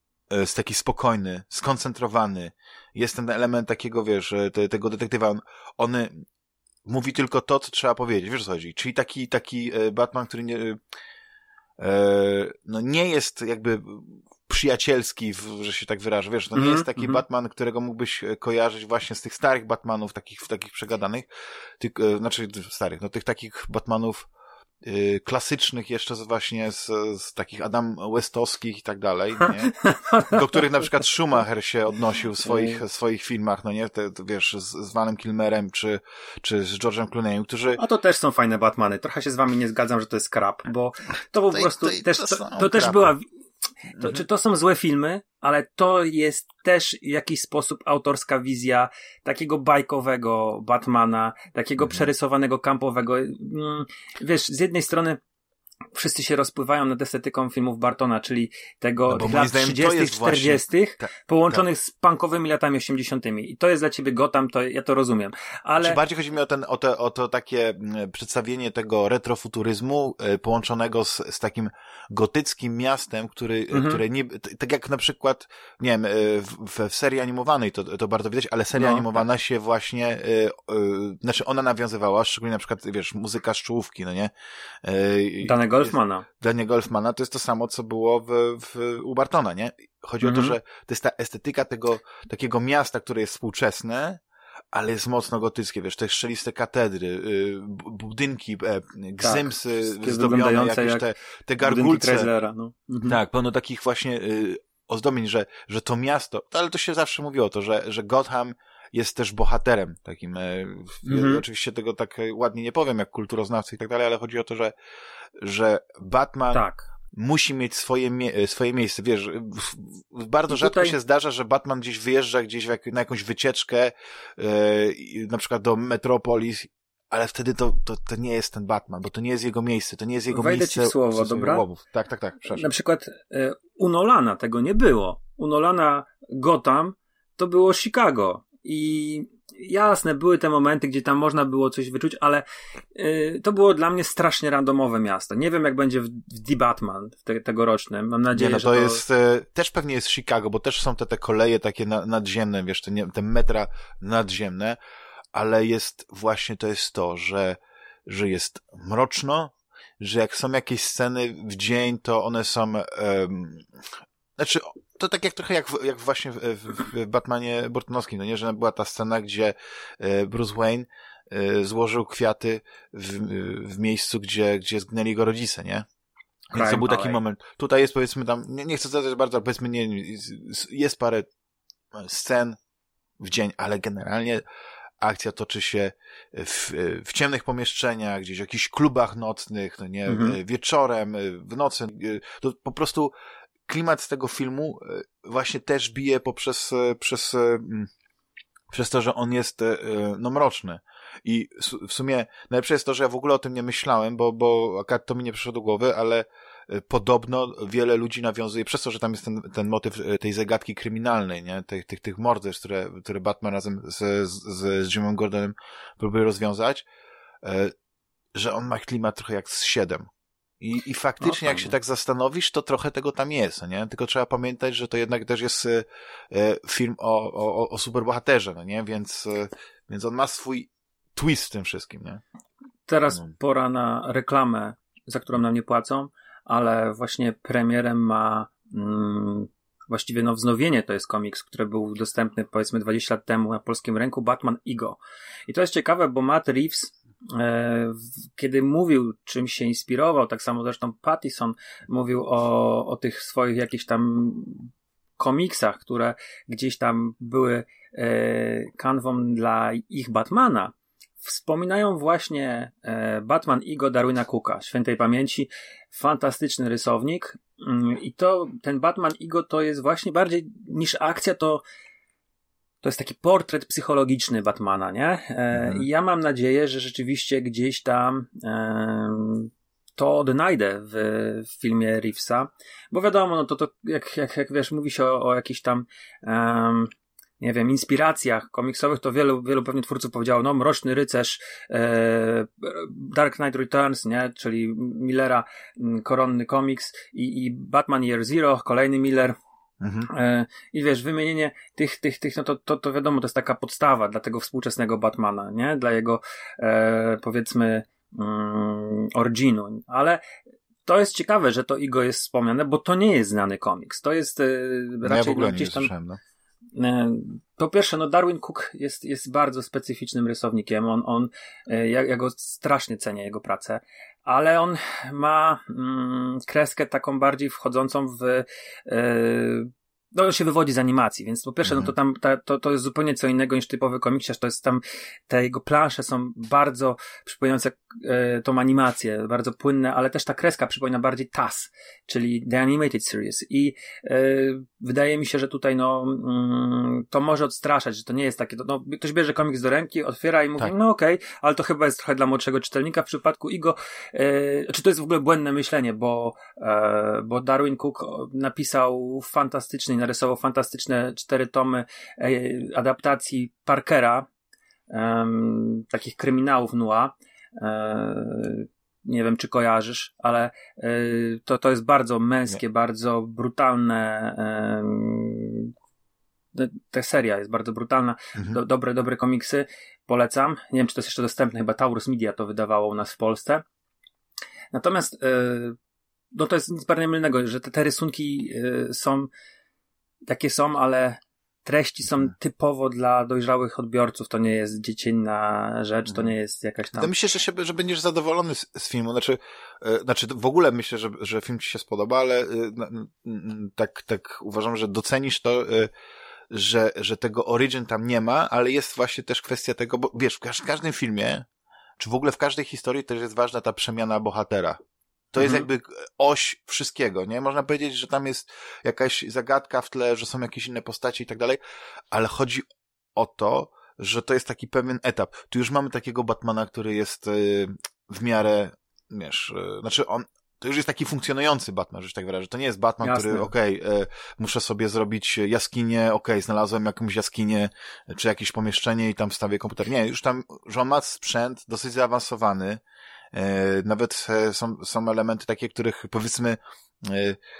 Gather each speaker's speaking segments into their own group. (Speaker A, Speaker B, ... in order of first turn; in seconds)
Speaker A: 0.3-6.2, 6.9-10.8, 11.8-21.3, 21.8-24.3, 24.8-37.8, 41.5-43.1, 59.1-61.6, 65.8-84.3, 84.8-94.2, 94.7-102.3, 103.0-114.7, 115.4-116.6, 117.1-132.7, 148.3-154.8, 155.3-175.9, 176.5-181.3, 181.9-182.6, 183.2-184.4, 185.0-193.1, 193.7-197.9, 198.7-216.8, 217.4-217.7, 218.3-220.1, 220.6-232.2, 275.5-275.8, 299.8-300.1, 315.1-316.2, 397.0-405.9, 406.5-411.5, 412.0-414.8, 415.3-421.6, 422.1-447.4
Speaker B: 16.6-17.2, 29.4-31.0, 32.5-32.8, 37.8-43.2, 44.0-55.2, 55.9-66.0, 73.7-74.0, 78.8-79.2, 85.4-86.3, 90.2-90.5, 99.2-101.0, 101.6-103.2, 111.1-111.4, 116.5-116.9, 120.5-121.0, 130.3-131.6, 132.5-149.0, 176.5-177.2, 190.1-190.4, 221.2-221.7, 232.9-271.6, 272.8-299.4, 300.1-310.2, 310.9-315.9, 316.8-364.3, 364.9-375.7, 376.5-383.6, 384.7-385.8, 386.3-389.3, 390.3-397.1, 415.4-415.7, 433.0-433.5